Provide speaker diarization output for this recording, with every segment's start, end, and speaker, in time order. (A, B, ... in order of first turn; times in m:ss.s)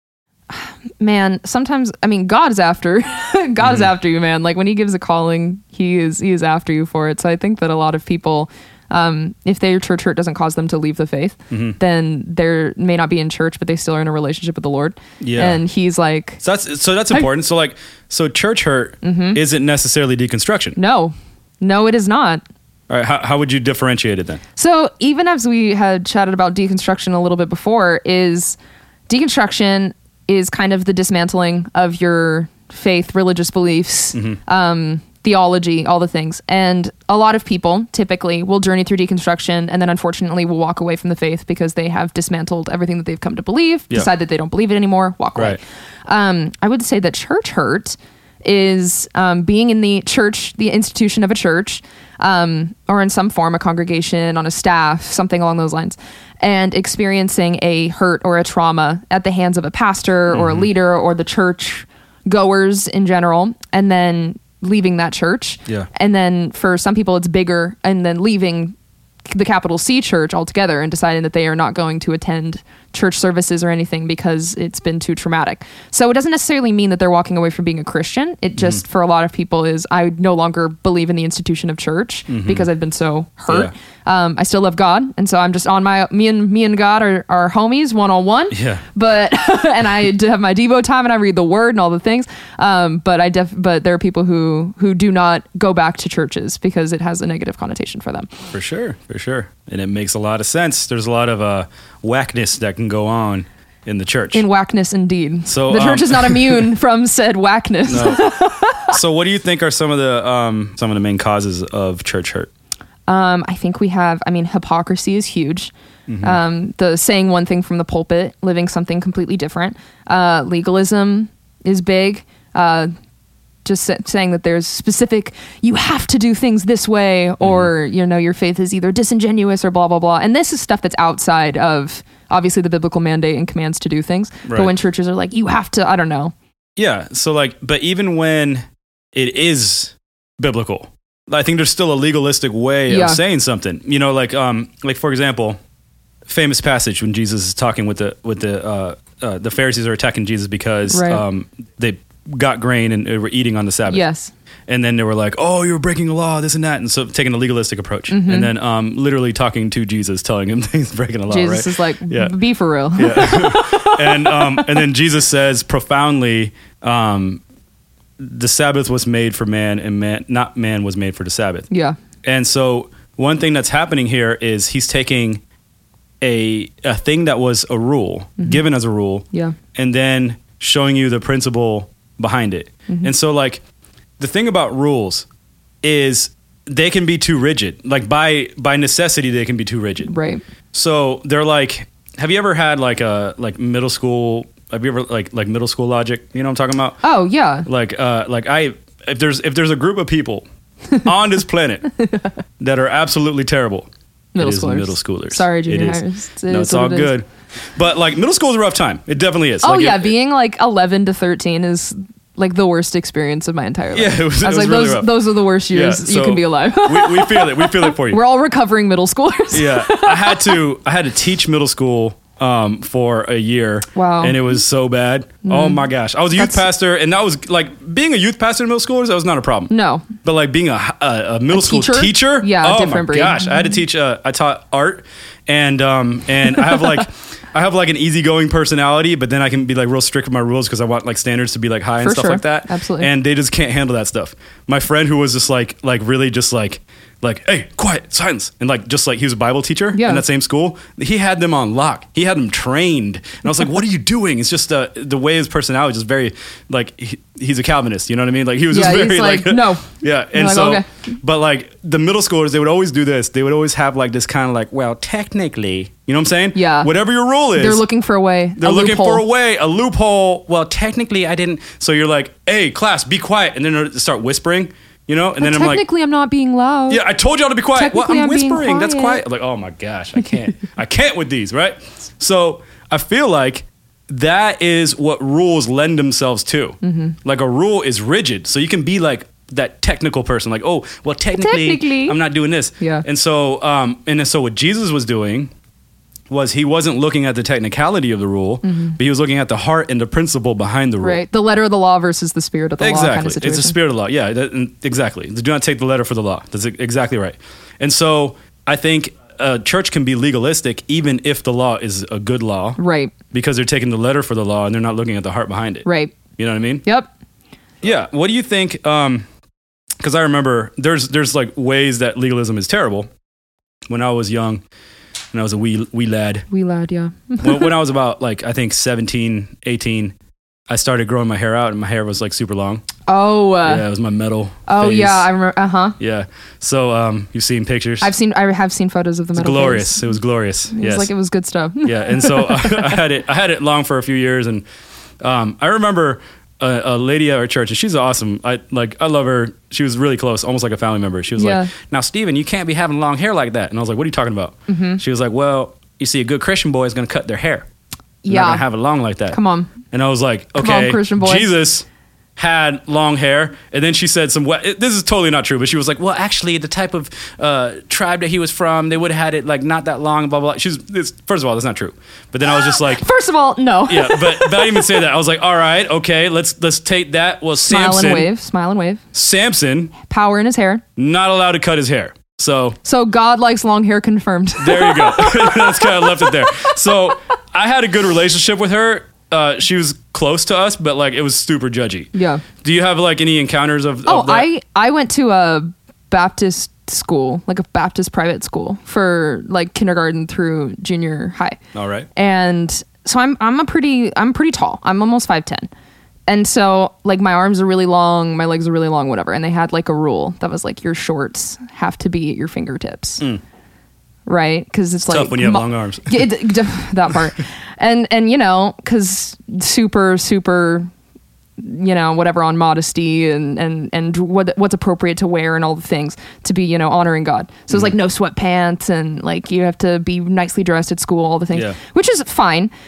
0:00.5-0:16.4 A
0:03.6-0:03.9 B
0:11.5-0:11.8 B
0:15.2-0:15.6 B
0:16.4-0:20.8 B
0:19.0-0:19.4 A
0:20.8-0:22.4 A
0:22.9-0:24.4 B
0:24.6-0:28.6 A
0:29.1-1:08.8 A
1:00.3-1:00.7 B
1:09.3-1:38.3 A
1:18.6-1:18.8 B
1:22.3-1:22.7 B
1:28.5-1:28.8 B
1:38.5-1:44.4 B
1:44.3-1:49.0 A
1:45.5-1:46.7 B
1:47.9-1:48.3 B
1:48.9-1:52.5 B
1:53.1-2:02.9 A
1:56.1-1:56.4 B
2:03.6-2:16.3 A
2:07.4-2:07.7 B
2:14.5-2:14.7 B
2:16.8-2:25.6 B
2:22.9-2:23.2 A
2:26.3-2:34.0 B
2:30.9-2:31.2 A
2:33.9-2:34.3 A
2:34.7-2:42.4 B
2:38.1-2:38.5 A
2:41.3-2:44.8 A
2:43.0-2:47.4 B
2:48.2-2:51.7 B
2:51.7-2:52.0 A
2:52.2-2:55.4 B
2:56.2-3:03.6 B
3:04.2-3:05.3 B
3:05.8-3:10.1 B
3:10.0-3:10.4 A
3:10.7-3:17.0 B
3:17.0-3:17.7 A
3:17.7-3:20.4 B
3:21.0-3:21.9 B
3:22.0-3:22.3 A
3:22.6-3:30.1 B
3:24.4-3:27.1 A
3:29.6-3:40.6 A
3:33.9-3:38.2 B
3:39.5-3:49.7 B
3:44.0-3:44.6 A
3:45.5-3:45.8 A
3:46.4-3:46.6 A
3:49.7-3:50.1 A
3:50.2-4:27.8 B
3:51.5-3:53.7 A
3:56.5-3:57.0 A
4:02.0-4:03.1 A
4:09.9-4:10.2 A
4:18.7-4:20.9 A
4:26.6-4:26.9 A
4:27.6-4:29.2 A
4:28.6-4:35.8 B
4:35.4-4:37.0 A
4:36.9-4:55.5 B
4:37.8-4:39.2 A
4:46.8-4:47.2 A
4:51.4-4:52.2 A
4:52.8-4:53.0 A
4:56.3-5:01.2 B
4:58.6-4:59.0 A
5:01.0-5:03.8 A
5:02.8-5:12.8 B
5:12.8-5:13.1 A
5:13.3-5:15.9 B
5:15.8-5:16.2 A
5:16.4-5:16.8 B
5:17.8-5:19.2 B
5:20.0-5:23.1 B
5:23.9-5:24.6 B
5:25.3-5:26.5 B
5:26.5-5:27.7 A
5:27.4-5:30.2 B
5:30.7-5:32.8 B
5:33.1-5:33.9 A
5:33.6-5:35.3 B
5:34.7-5:36.0 A
5:36.0-5:38.1 B
5:38.0-5:40.1 A
5:39.3-5:41.1 B
5:40.7-5:43.0 A
5:41.8-5:44.6 B
5:45.2-5:57.7 B
5:51.4-5:51.7 A
5:54.7-5:55.0 A
5:58.2-5:58.6 A
5:58.3-5:59.4 B
5:59.3-5:59.7 A
5:59.9-6:13.0 B
6:00.6-6:01.5 A
6:12.4-6:15.0 A
6:13.9-6:18.3 B
6:17.7-6:19.0 A
6:19.1-6:19.9 B
6:20.0-6:20.8 A
6:21.0-6:22.8 B
6:22.8-6:26.8 A
6:24.6-6:34.5 B
6:32.2-6:32.4 A
6:34.1-6:41.6 A
6:41.7-6:42.1 B
6:42.2-6:45.7 A
6:46.3-6:53.2 A
6:54.3-7:00.9 A
6:55.1-6:56.4 B
7:01.6-7:12.7 A